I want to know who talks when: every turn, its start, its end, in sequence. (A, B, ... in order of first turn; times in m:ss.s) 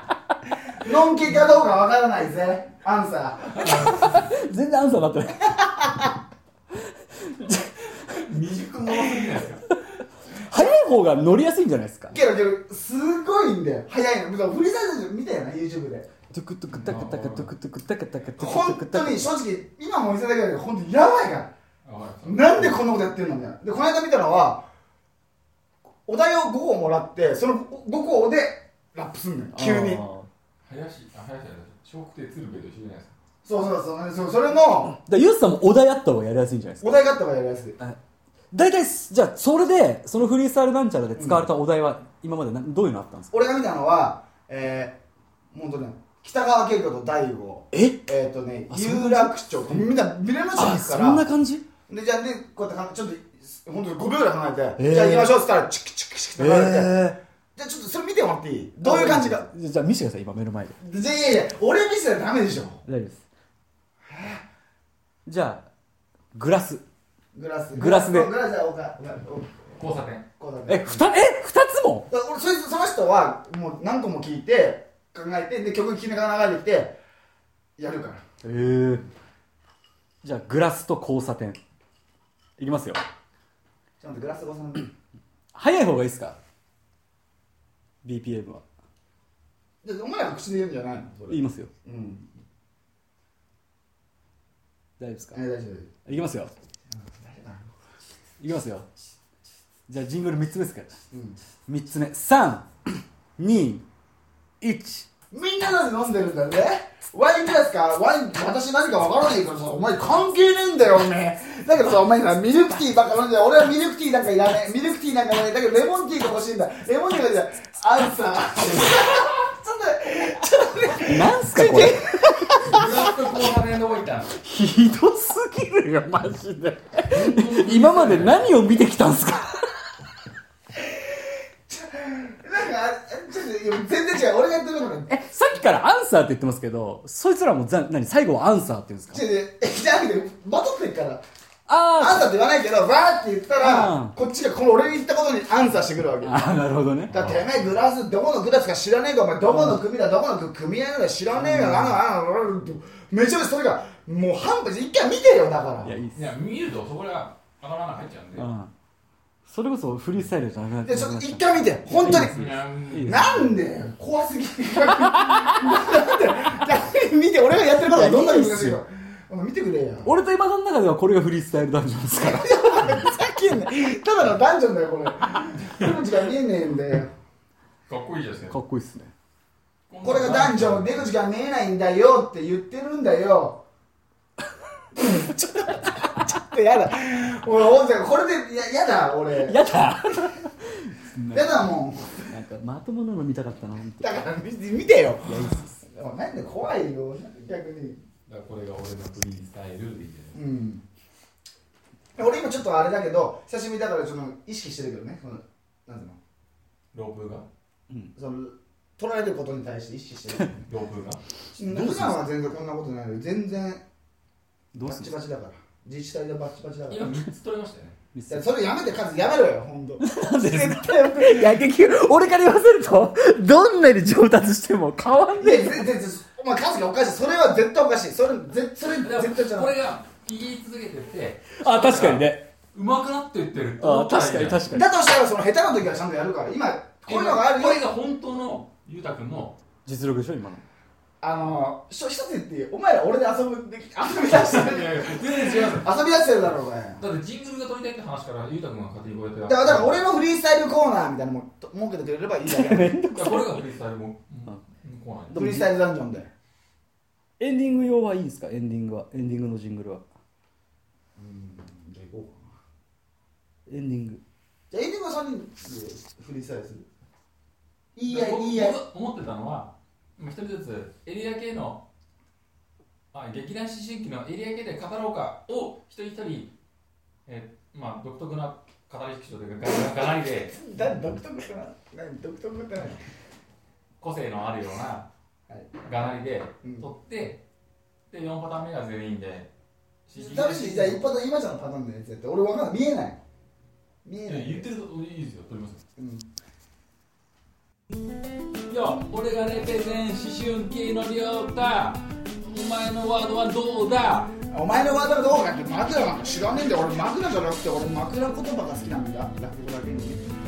0:00.7-0:03.9 A
0:03.5-0:06.1 B
0:03.6-0:04.2 C
0:07.1-0:07.7 B
0:07.9-0:09.7 C
0:10.3-0:12.1 B
0:12.1-0:16.1 A
0:16.3-0:19.4 B
0:16.7-0:17.5 C
0:18.4-0:21.5 A
0:21.8-0:22.8 C
0:22.2-0:24.6 A
0:26.0-0:30.0 A
0:29.5-0:30.3 B
0:30.6-0:33.1 C
0:33.4-0:35.0 A
0:35.0-0:36.9 B
0:36.8-0:37.8 A
0:38.5-0:43.3 B
0:41.1-0:41.5 A
0:43.3-0:45.0 A
0:45.5-0:51.2 A
0:47.7-0:48.0 B
0:48.7-0:49.9 B
0:50.5-0:51.6 B
0:51.9-0:59.5 A
0:54.8-0:55.3 B
0:56.4-0:57.2 B
0:58.8-1:00.8 B
1:00.8-1:02.8 A
1:02.8-1:03.2 B
1:04.1-1:04.4 A
1:05.2-1:05.6 B
1:06.3-1:06.8 B
1:07.3-1:09.7 A
1:07.7-1:08.3 B
1:09.8-1:10.2 C
1:10.4-1:11.0 A
1:10.7-1:12.1 B
1:12.1-1:17.0 A
1:17.8-1:18.2 A
1:18.4-1:19.1 B
1:20.2-1:21.6 B
1:22.6-1:23.0 B
1:24.0-1:24.9 A
1:25.5-1:26.4 B
1:28.0-1:28.6 B
1:29.8-1:32.3 A
1:31.3-1:31.7 B
1:35.0-1:35.4 B
1:35.3-1:35.9 A
1:36.0-1:36.5 B
1:36.9-1:37.7 A
1:38.4-1:38.9 B
1:39.9-1:40.9 B
1:41.1-1:41.4 A
1:41.7-1:42.7 B
1:43.4-1:43.8 B
1:44.6-1:45.1 B
1:45.3-2:02.6 A
2:01.0-2:03.1 B
2:02.6-2:04.3 C
2:04.3-2:09.9 B
2:07.1-2:08.6 C
2:11.7-2:15.1 A
2:15.1-2:19.2 B
2:19.1-2:21.2 A
2:21.7-2:22.3 B
2:22.0-2:26.4 A
2:23.6-2:24.1 B
2:26.2-2:27.1 B
2:27.1-2:27.6 C
2:27.1-2:36.0 A
2:29.5-2:29.8 B
2:31.3-2:32.0 B
2:35.8-2:36.3 B
2:36.1-2:38.5 C
2:38.4-2:38.7 B
2:39.4-2:43.5 B
2:40.8-2:42.5 A
2:42.1-2:43.4 C
2:43.0-2:50.1 A
2:45.0-2:45.8 B
2:47.8-2:48.8 B
2:50.0-2:53.0 B
2:52.1-2:57.1 A
2:57.9-2:58.6 C
2:58.5-2:59.1 B
2:59.9-3:01.0 C
3:00.0-3:03.6 A
3:05.0-3:09.7 A
3:09.4-3:11.7 B
3:11.3-3:12.3 A
3:12.3-3:14.2 B
3:14.0-3:18.0 A
3:15.2-3:15.8 B
3:18.3-3:20.4 C
3:20.3-3:20.8 A
3:22.2-3:26.2 A
3:26.9-3:27.4 C
3:28.1-3:30.7 A
3:30.7-3:31.2 C
3:31.6-3:33.8 A
3:31.6-3:32.2 B
3:34.7-3:35.2 B
3:34.8-3:37.2 A
3:36.9-3:38.0 C
3:38.1-3:38.5 B
3:38.3-3:41.6 A
3:40.0-3:45.9 B
3:45.4-3:49.7 A
3:49.0-3:54.6 C
3:51.5-3:52.5 B
3:53.8-3:54.9 B
3:54.7-3:57.9 A
3:57.0-3:59.6 C
3:59.8-4:00.6 B
4:01.2-4:07.0 A
4:04.3-4:05.9 C
4:07.0-4:10.0 C
4:09.4-4:13.0 A
4:12.4-4:13.6 B
4:13.1-4:15.4 C
4:15.3-4:15.7 B
4:15.3-4:16.3 A
4:17.4-4:20.0 B
4:21.2-4:22.4 A
4:23.7-4:24.2 B
4:24.7-4:26.8 A
4:27.9-4:28.8 A
4:28.1-4:31.8 C
4:33.1-4:36.5 C
4:37.2-4:40.6 C
4:39.9-4:43.0 A
4:44.0-4:45.1 C
4:45.8-4:47.4 C
4:46.6-4:46.9 A
4:48.1-4:49.5 C
4:50.1-4:51.1 C
4:50.1-4:53.2 A
4:54.0-4:54.7 A
4:54.2-4:55.8 C
4:56.0-4:56.2 A
4:58.7-5:04.3 C
5:04.5-5:10.2 A